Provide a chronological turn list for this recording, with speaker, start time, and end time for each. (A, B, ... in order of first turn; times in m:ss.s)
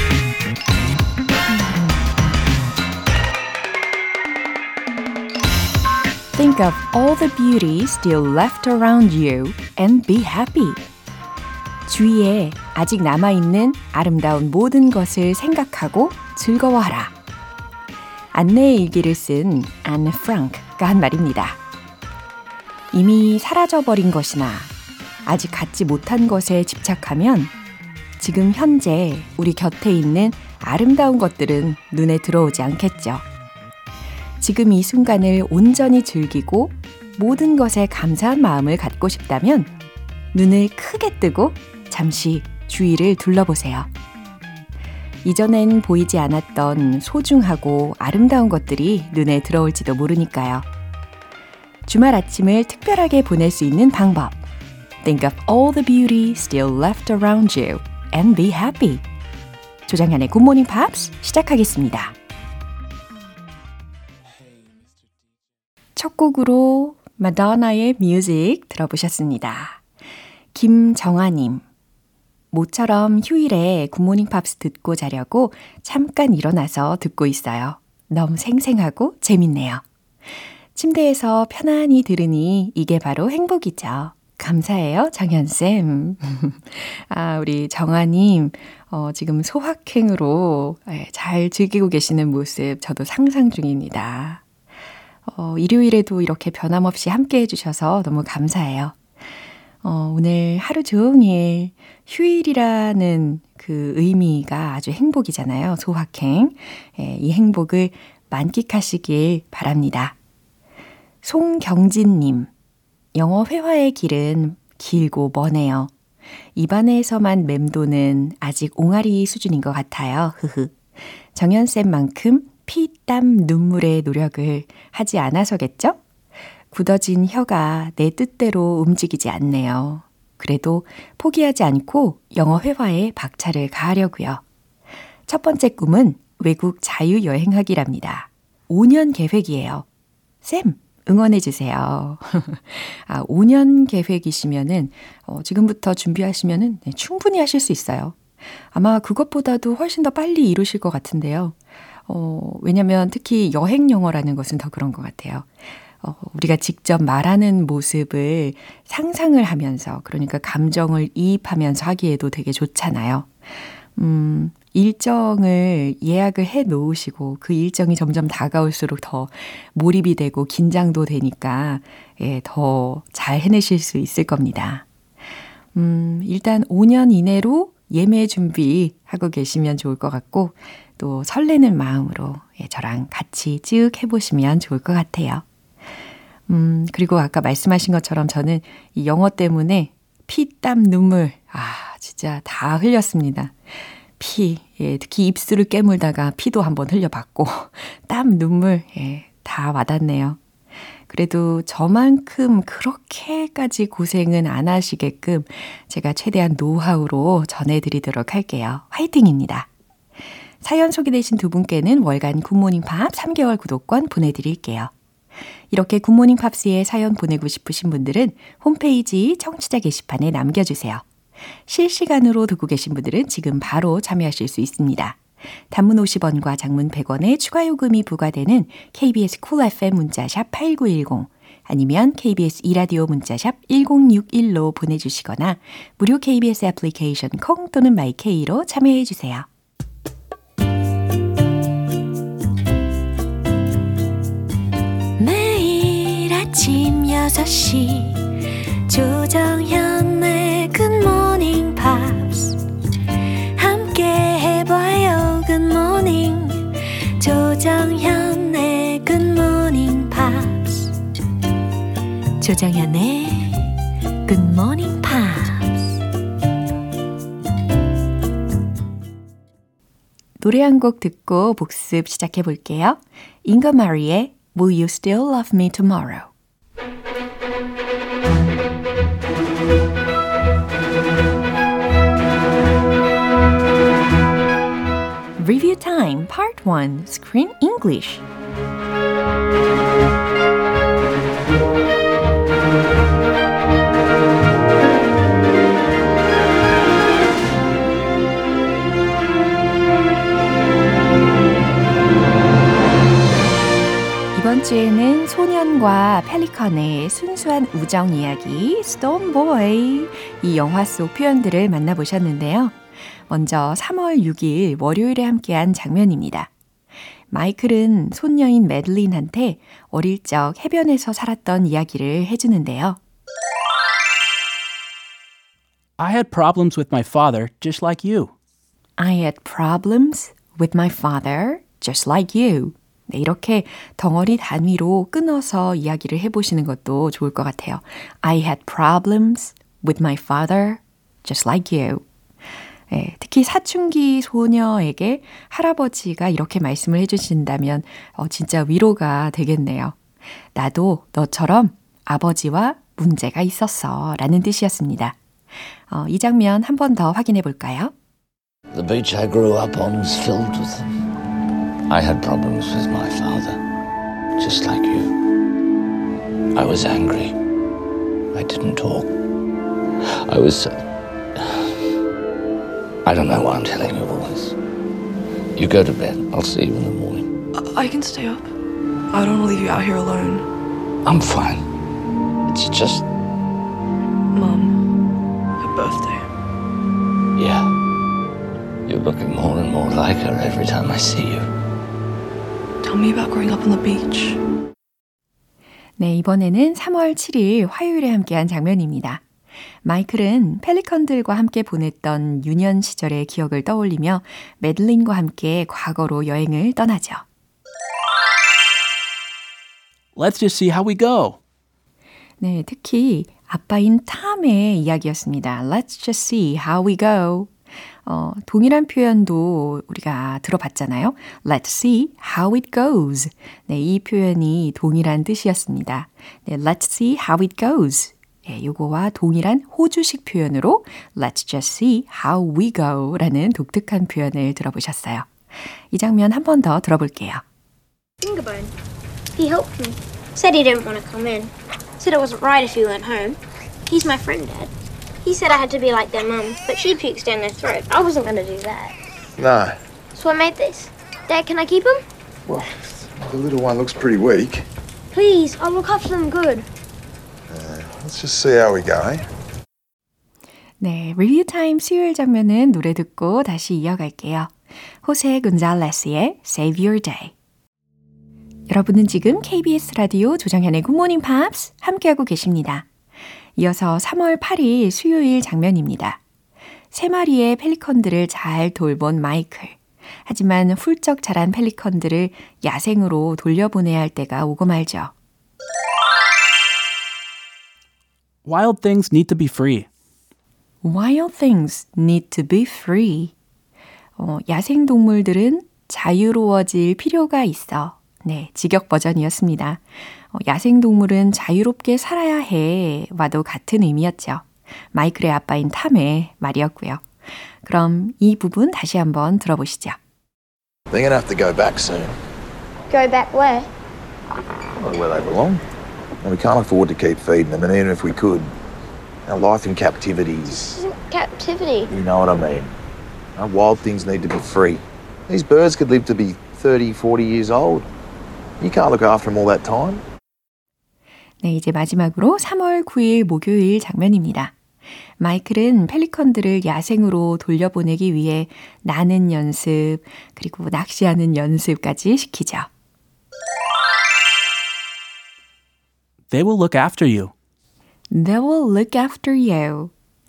0:06.3-0:10.8 A
0:11.9-0:17.1 A
0:18.3-0:21.6 A
0:22.9-0:24.7 A
0:25.2-0:27.5 A
0:28.2-0:33.2 A
0:34.4-0:39.7 A
0:40.3-0:43.9 A
0:45.2-0:50.7 A
0:51.9-0:54.4 A
0:55.0-0:59.0 A
0:59.9-1:02.1 A
1:06.0-1:09.8 A
1:10.5-1:11.6 A
1:12.5-1:19.8 A
1:20.7-1:34.4 A
1:35.3-1:39.0 A
1:39.8-1:50.2 A
1:51.2-1:52.5 A
1:53.1-1:55.9 A
1:56.6-2:00.8 A
2:01.3-2:06.0 A
2:06.7-2:14.4 A
2:15.3-2:19.9 A
2:20.4-2:28.2 A
2:28.7-2:31.6 A
2:32.1-2:35.5 A
2:36.0-2:43.3 A
2:44.0-2:54.8 A
2:55.7-3:05.4 A
3:06.5-3:20.4 A
3:21.1-3:29.7 A
3:30.6-3:34.9 A
3:35.7-3:41.0 A
3:41.7-3:59.5 A
4:05.2-4:08.3 A
4:08.9-4:12.6 A
4:13.6-4:21.0 A
4:22.4-4:26.0 A
4:30.4-4:36.3 A
4:45.4-4:48.2 A
5:04.3-5:12.8 A
5:13.3-5:16.5 A
5:17.3-5:23.0 A
5:26.0-5:28.3 B
5:29.0-5:42.0 A
5:42.9-5:50.0 A
5:50.6-5:55.2 A
5:55.9-5:57.9 A
5:58.7-6:01.0 C
6:01.9-6:03.6 C
6:04.4-6:05.2 C
6:06.6-6:07.4 C
6:08.3-6:09.1 C
6:10.0-6:10.8 C
6:11.4-6:11.7 C
6:13.0-6:14.6 C
6:15.6-6:17.3 C
6:17.6-6:18.5 D
6:19.1-6:20.5 D
6:21.0-6:21.6 C
6:22.5-6:23.1 C
6:24.3-6:24.8 D
6:25.6-6:26.3 D
6:27.4-6:27.7 C
6:28.9-6:31.5 C
6:32.8-6:34.4 D
6:36.0-6:39.2 A
6:39.8-6:47.2 A
6:50.2-6:51.4 B
6:52.4-6:57.5 A
6:58.0-7:15.3 A
7:15.9-7:17.4 A
7:18.2-7:18.7 E
7:19.4-7:24.7 E
7:25.2-7:29.0 E
7:29.4-7:29.8 F
7:30.2-7:32.0 E
7:32.5-7:34.7 F
7:35.1-7:36.7 E
7:37.5-7:39.2 F
7:40.8-7:47.3 A
7:48.7-7:52.9 A
7:53.6-7:56.2 A
7:56.9-8:05.1 A
8:08.4-8:09.9 B
8:10.8-8:13.3 A
8:14.2-8:27.1 A
8:27.6-8:30.0 A
8:30.9-8:32.2 F
8:32.9-8:33.7 E
8:34.8-8:35.6 F
8:36.2-8:38.5 F
8:39.3-8:40.7 F
8:40.5-8:41.9 E
8:41.9-8:42.7 F
8:43.4-8:47.9 F
8:48.6-8:50.0 F
8:51.4-8:54.6 A
8:55.2-9:02.7 A
9:06.3-9:07.3 B
9:08.1-9:09.9 A